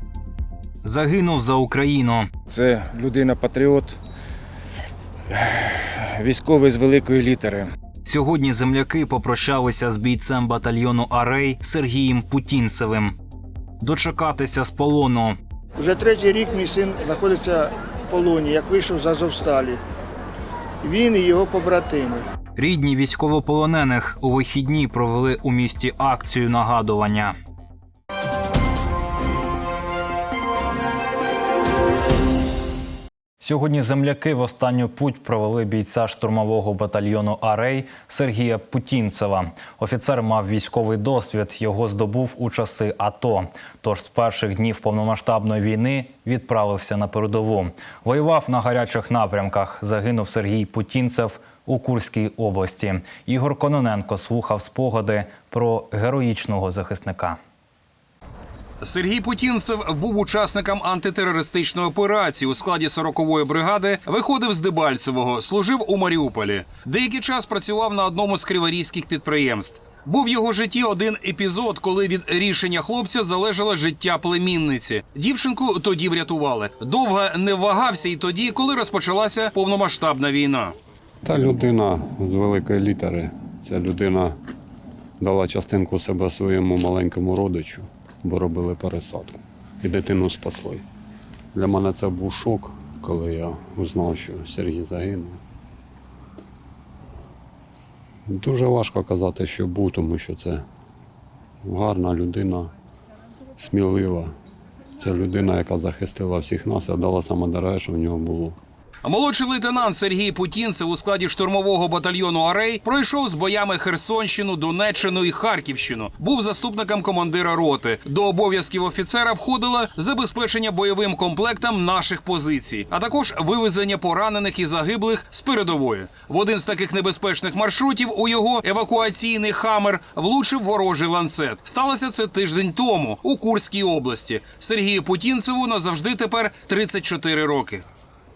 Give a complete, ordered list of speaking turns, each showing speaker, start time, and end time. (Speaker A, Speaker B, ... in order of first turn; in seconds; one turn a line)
Speaker A: 0.8-2.3
Speaker B: 2.5-4.0
Speaker B: 5.3-7.7
Speaker A: 8.1-13.1
Speaker A: 13.8-15.4
Speaker C: 15.8-19.8
Speaker C: 20.8-22.2
Speaker A: 22.6-27.4
Speaker A: 33.4-57.4
Speaker D: 58.8-80.8
Speaker E: 81.2-84.3
Speaker E: 85.2-90.8
Speaker E: 91.5-95.4
Speaker E: 98.3-100.6
Speaker E: 101.6-102.7
Speaker E: 103.6-104.3
Speaker E: 105.0-108.6
Speaker D: 109.0-137.8